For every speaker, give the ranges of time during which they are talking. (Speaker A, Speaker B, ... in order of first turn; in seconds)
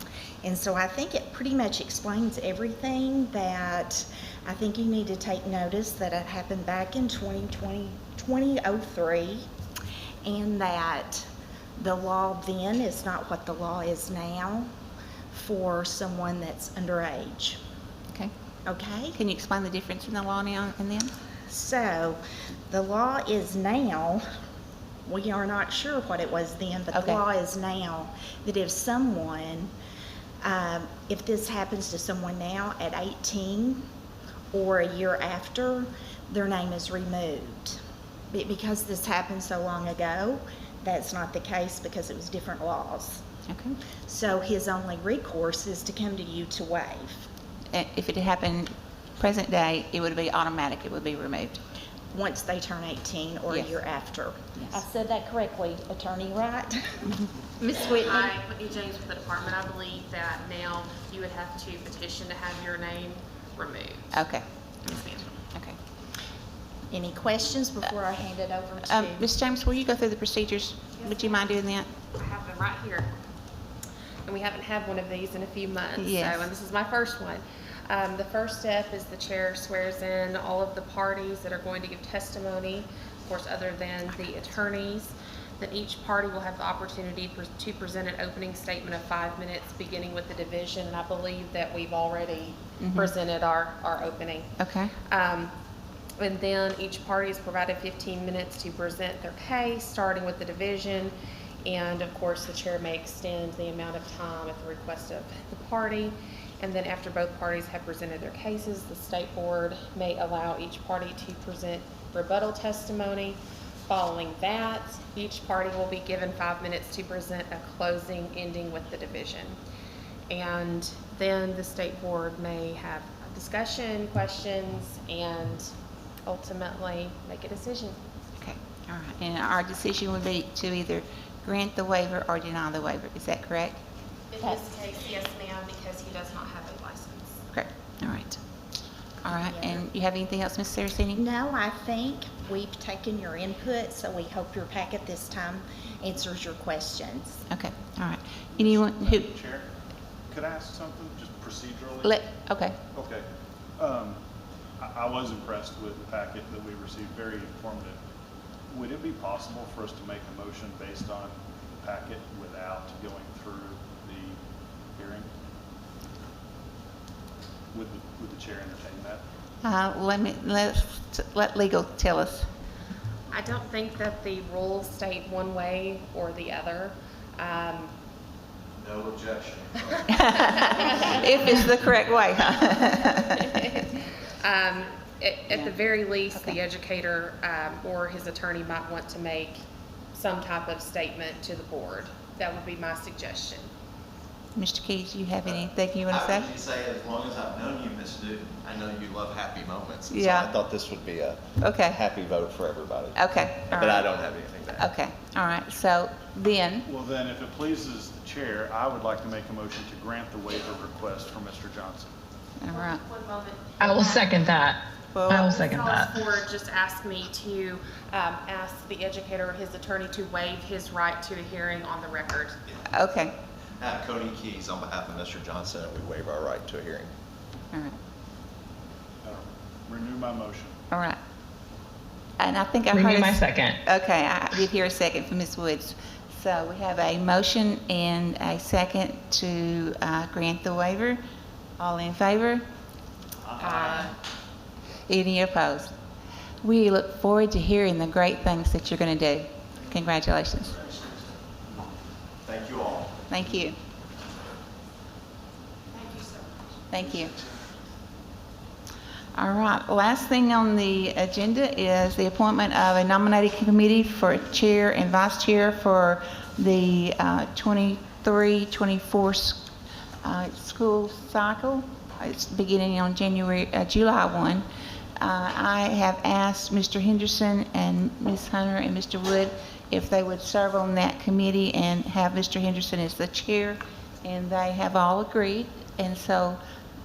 Speaker A: 0.4-9.4, 10.2-11.3, 11.8-14.7, 15.3-17.6, 18.7-19.2, 21.5-24.2, 25.1-29.7, 30.4-33.8, 34.5-37.8, 38.3-43.2, 44.1-47.3, 52.1-57.1, 57.6-58.3, 66.9-69.3, 139.3-139.8, 141.1-147.5
Speaker B: 19.1-21.1, 26.9-27.2, 43.5-43.8, 47.7-51.6, 53.5-53.8, 64.1-65.8, 68.8-71.9, 76.0-76.5, 92.8-93.1, 94.6-94.9, 128.4-133.8, 137.5-138.4, 139.2-141.2, 147.5-149.3, 152.0-152.8, 169.6-172.5, 180.1-183.6, 186.3-186.6, 194.6-196.5, 200.1-200.5, 201.6-202.0, 203.2-204.1, 204.8-206.9, 212.6-213.0, 215.1-215.5, 222.9-223.3, 227.7-228.0, 230.9-231.2, 232.4-241.2, 241.8-242.6, 245.1-245.9, 246.6-250.8, 253.3-253.8, 256.9-257.3, 259.4-269.7, 270.2-274.6, 275.2-286.6
Speaker C: 57.7-64.2, 64.9-65.2, 72.2-73.1, 74.3-94.5, 95.1-95.5, 96.2-101.1, 101.6-119.6, 120.3-125.7, 126.3-128.0, 134.3-137.4, 173.3-177.9, 180.4-181.7, 182.8-189.6, 190.1-193.7, 212.7-214.4, 215.3-222.6, 243.6-244.1, 255.9-256.4
Speaker D: 148.5-149.7, 150.3-152.2, 152.9-154.2, 154.8-158.0, 158.7-164.4, 164.9-165.3, 167.7-169.2, 206.8-212.1, 229.2-230.8, 243.6-244.1
Speaker E: 178.8-181.6, 195.5-204.8, 223.8-227.1, 252.4-253.3
Speaker F: 213.8-216.2, 232.9-233.8